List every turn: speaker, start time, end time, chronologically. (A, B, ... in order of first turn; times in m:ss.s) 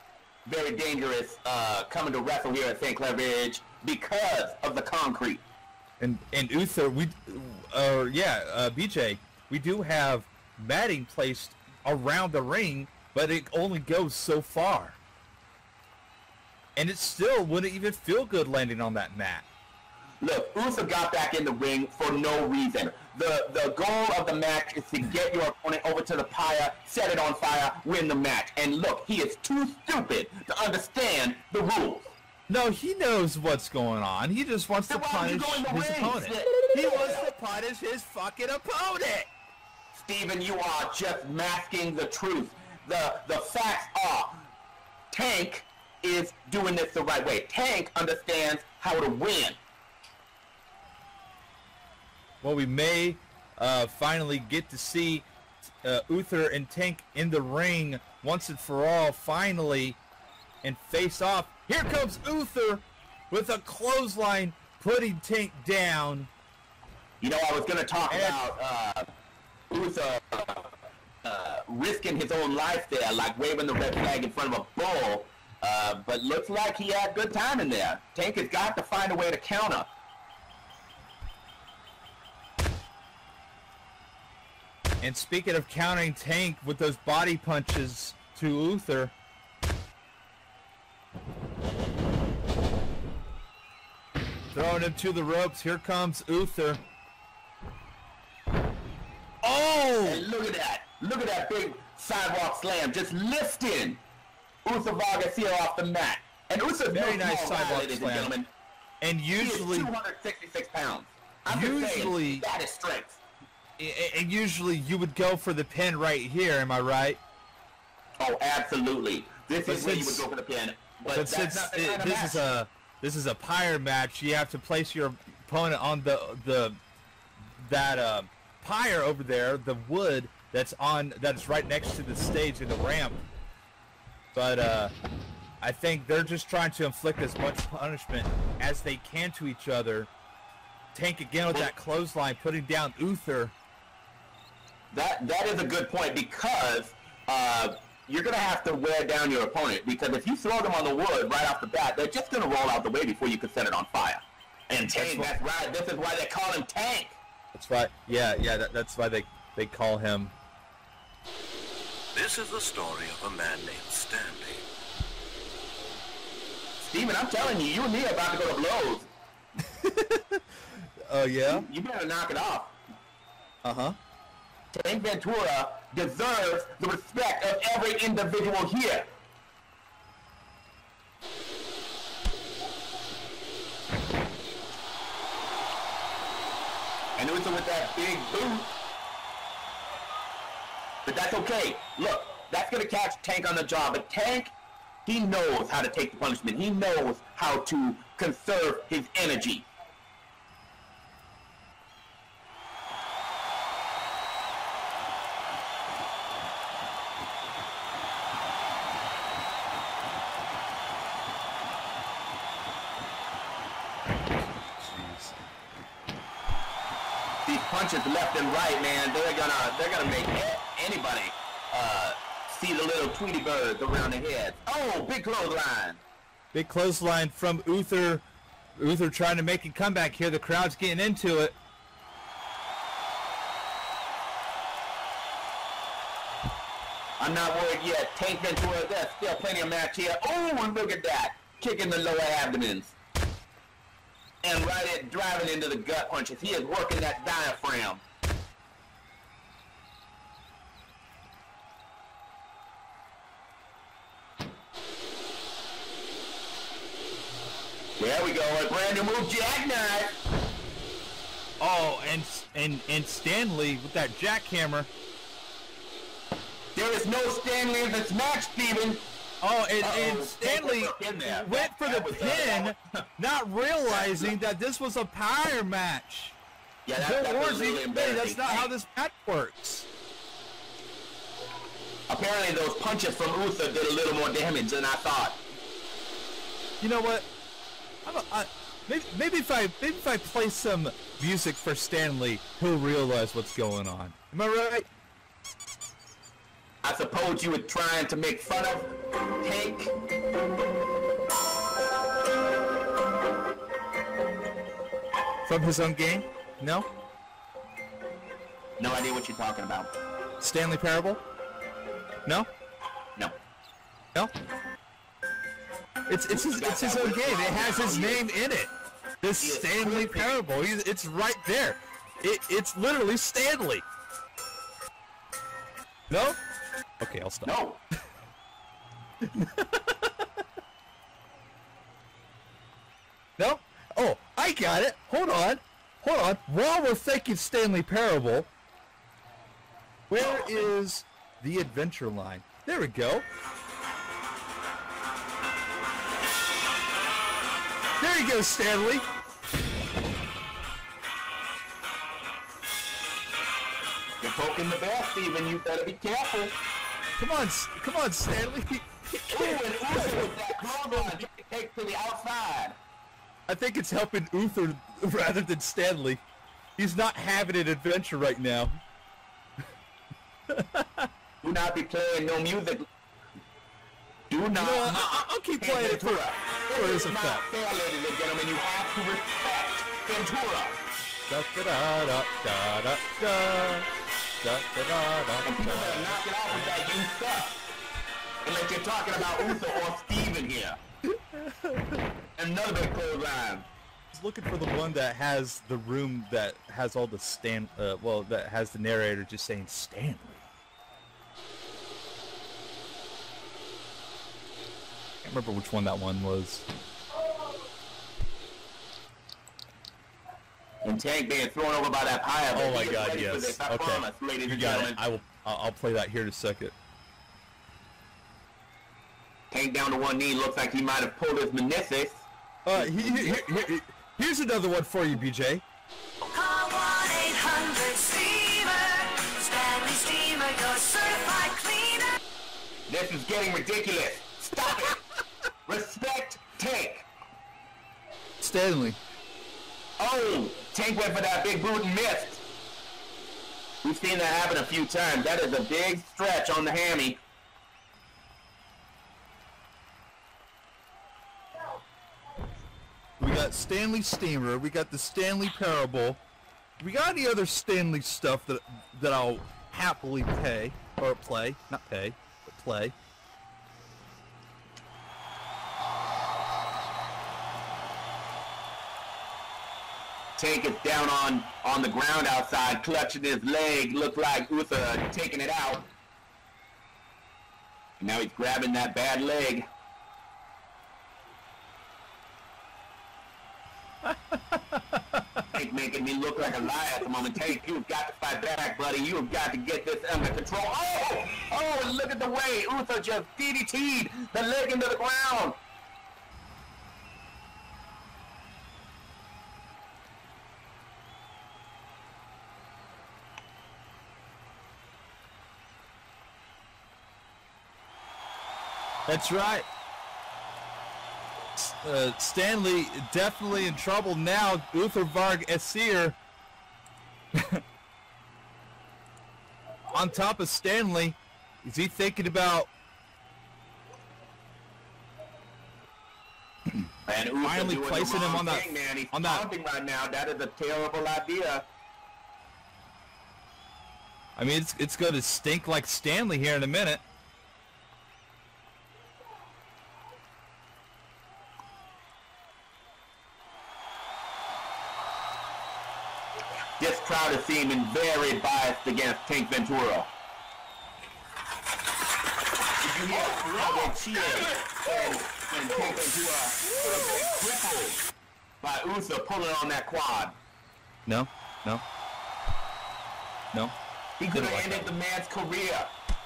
0:00.5-0:05.4 A
0:06.0-0:15.0 B
0:16.8-0:19.5 B
0:20.2-0:32.1 A
0:32.5-0:39.3 B
0:34.9-0:37.3 A
0:39.9-0:44.4 A
0:45.1-0:49.6 A
0:52.4-0:55.3 B
0:55.8-1:00.0 B
1:00.6-1:06.3 B
1:07.2-1:09.1 A
1:08.1-1:08.4 B
1:09.7-1:10.7 A
1:11.2-1:19.9 A
1:25.0-1:29.1 B
1:34.5-1:36.8 B
1:39.4-1:40.3 B
1:40.0-1:44.0 A
1:44.6-1:48.5 A
1:46.9-1:48.4 B
1:49.0-1:49.9 B
1:49.4-1:53.2 A
1:51.5-1:52.5 B
1:53.8-1:57.2 B
1:58.2-2:02.5 A
1:59.7-2:00.2 B
2:01.1-2:06.8 B
2:07.6-2:13.2 B
2:14.3-2:14.9 B
2:15.6-2:20.1 B
2:20.9-2:23.5 B
2:24.9-2:37.2 A
2:34.9-2:35.3 B
2:37.5-2:40.3 B
2:42.1-2:44.6 C
2:46.8-2:49.1 A
2:49.6-2:50.4 B
2:51.0-2:51.7 B
2:51.5-2:52.8 A
2:53.6-2:54.0 B
2:54.7-2:59.1 A
3:07.2-3:08.7 A
3:11.1-3:14.5 A
3:15.1-3:19.7 A
3:34.6-3:35.3 B
3:37.5-3:46.0 A
3:46.5-3:48.2 B
3:48.8-3:51.6 B
3:57.2-4:03.0 A
4:04.4-4:08.0 A
4:18.0-4:20.2 A
4:21.6-4:24.9 B
4:26.8-4:29.0 A
4:29.4-4:36.4 B
4:29.8-4:33.0 A
4:33.9-4:34.4 A
4:36.9-4:38.7 A
4:37.0-4:39.9 B
4:42.1-4:45.4 A
4:46.8-4:47.3 B
4:48.0-4:54.9 B
4:56.8-4:59.9 A
5:05.4-5:06.9 B
5:08.8-5:09.9 A
5:10.4-5:11.2 B
5:12.2-5:12.5 B
5:16.1-5:23.8 B
5:16.3-5:18.3 A
5:19.4-5:20.4 A
5:26.1-5:26.4 B
5:27.0-5:27.5 B
5:27.4-5:27.8 A
5:29.2-5:30.3 B
5:33.4-5:38.5 B
5:40.1-5:43.3 B
5:48.0-5:49.0 B
5:54.2-5:56.6 A
5:57.2-6:01.3 B
5:59.3-6:02.8 A
6:03.5-6:06.2 B
6:06.8-6:08.8 B
6:10.5-6:11.1 B
6:11.4-6:12.9 A
6:14.3-6:20.8 A
6:14.5-6:17.4 B
6:21.3-6:23.9 B
6:24.4-6:26.8 B
6:25.4-6:27.6 A
6:28.4-6:30.8 A
6:31.1-6:32.0 B
6:32.4-6:33.7 A
6:34.1-6:40.5 B
6:45.2-6:46.6 B
6:50.8-6:55.0 A
6:52.5-6:56.8 B
6:59.5-7:03.6 A
7:02.7-7:05.6 B
7:06.3-7:12.1 D
7:12.9-7:15.0 A
7:15.7-7:17.1 A
7:18.4-7:19.0 B
7:20.0-7:22.4 A
7:23.8-7:27.2 A
7:33.2-7:36.2 B
7:36.8-7:42.9 B
7:50.4-7:55.9 A
7:58.0-7:59.7 A
8:04.1-8:05.2 B
8:05.5-8:15.6 A
8:29.1-8:29.7 B
8:31.6-8:36.2 B
8:37.3-8:37.6 B
8:39.9-8:42.7 B
8:47.1-8:51.7 A
8:47.4-8:49.5 B
8:54.4-8:57.0 B
9:06.8-9:10.1 A
9:12.8-9:18.0 A
9:13.3-9:14.0 B
9:18.6-9:20.4 A
9:21.1-9:21.8 B
9:24.2-9:25.9 A
9:24.3-9:24.9 B